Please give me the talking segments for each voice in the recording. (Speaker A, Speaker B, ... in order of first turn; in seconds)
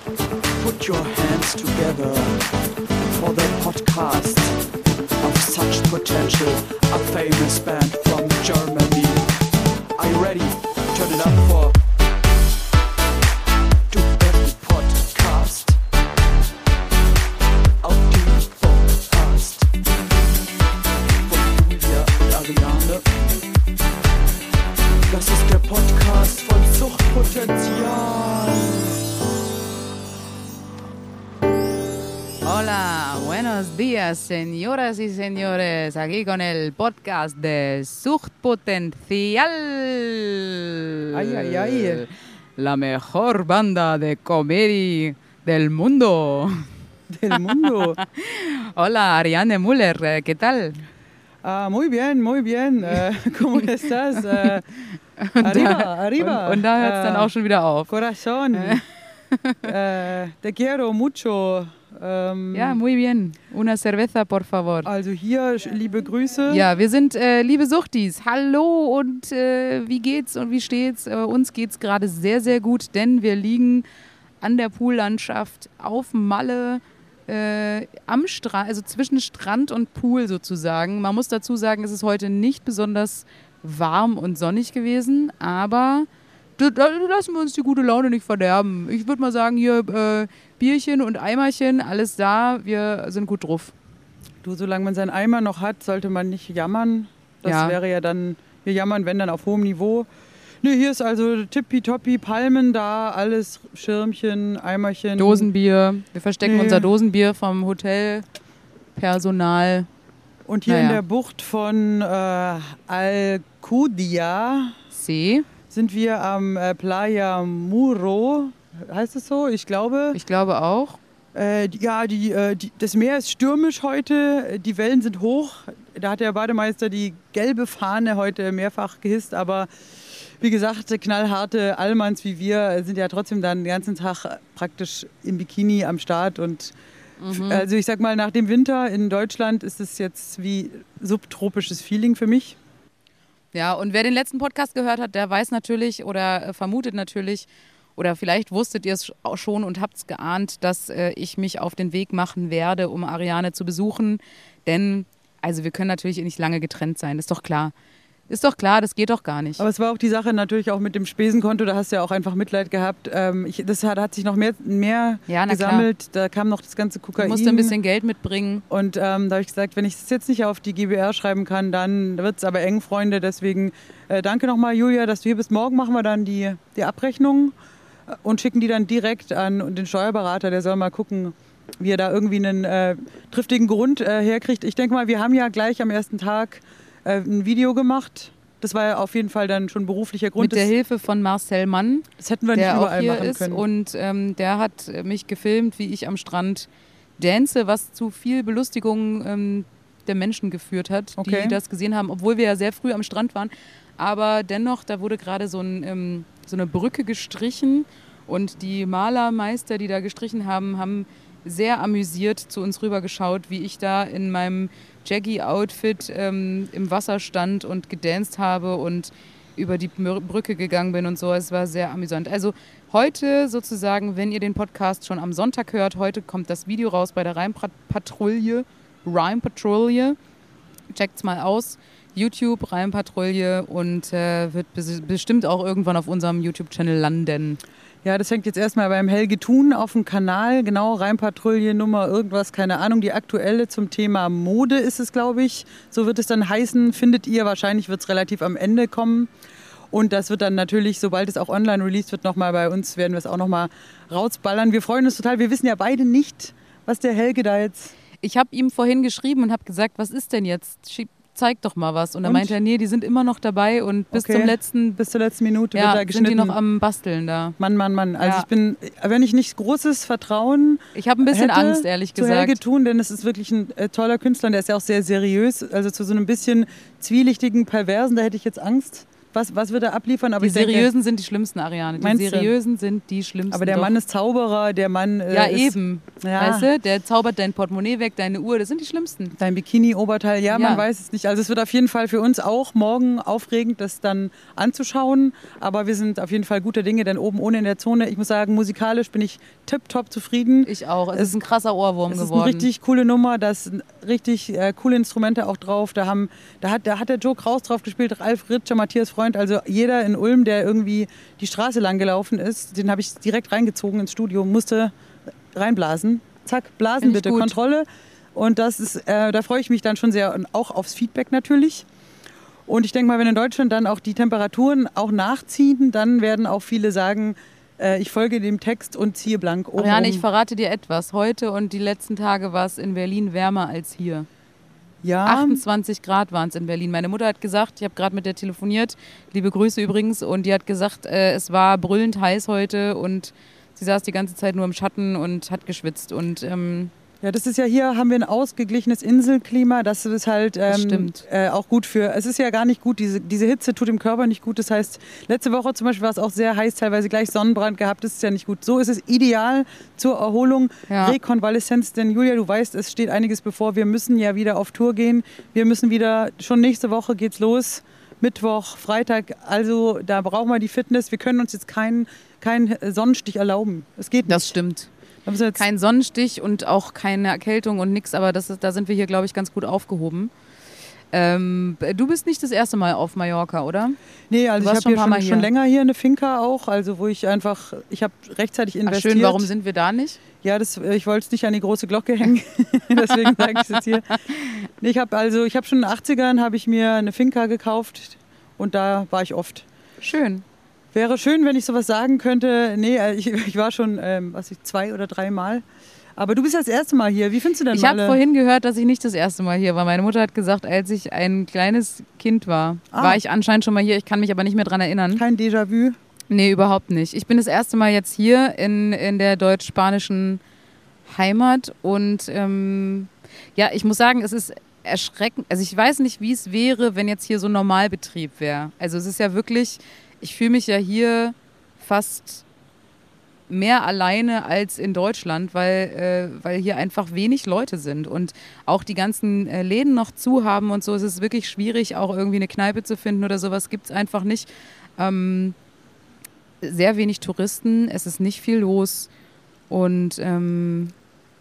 Speaker A: 0.6-2.5, 3.1-4.6, 5.2-11.8, 13.9-15.8, 17.8-19.7, 21.2-23.1, 25.1-28.9
Speaker B: 32.4-46.7, 47.3-50.8, 54.2-57.9, 58.5-59.7, 62.5-64.9, 66.5-73.9, 74.4-93.8, 97.5-97.8, 105.2-108.3, 109.0-109.9, 110.7-111.0, 114.9-115.5, 120.1-121.0, 137.2-137.7, 143.5-157.7, 158.3-159.6, 165.3-165.9, 167.2-168.7, 190.4-196.7, 197.2-230.2, 230.9-237.6, 258.2-265.0, 265.7-267.6, 268.2-268.5, 270.9-272.6, 280.4-283.9, 285.3-289.3, 290.5-290.9, 300.6-302.7, 317.0-317.6, 329.8-334.3, 335.2-346.9, 350.7-351.2, 360.9-361.2, 374.3-374.9, 375.5-380.3, 381.1-384.0, 384.6-385.5, 388.9-390.2, 393.0-394.4, 400.0-400.4, 407.7-415.2, 416.3-420.4, 421.1-432.4, 433.5-445.6, 446.6-449.1, 449.7-450.9
Speaker C: 41.1-42.0, 47.1-48.0, 51.4-54.6, 55.4-57.3, 57.9-58.8, 59.6-62.8, 64.8-66.7, 94.4-100.1, 100.6-105.5, 106.4-106.9, 110.5-114.8, 115.7-120.2, 121.3-136.8, 137.3-142.6, 159.6-167.8, 168.7-177.5, 178.1-190.7, 192.2-193.6, 201.2-201.6, 238.0-249.3, 249.9-257.9, 262.2-262.6, 264.1-266.6, 267.6-280.9, 282.0-282.5, 283.5-286.7, 289.4-301.4, 302.1-314.9, 315.5-321.9, 322.7-330.2, 335.0-335.6, 347.2-374.6, 375.3-375.6, 384.3-389.5, 390.4-394.2, 394.8-399.7, 400.9-405.6, 406.2-408.2, 412.9-413.2, 415.2-416.0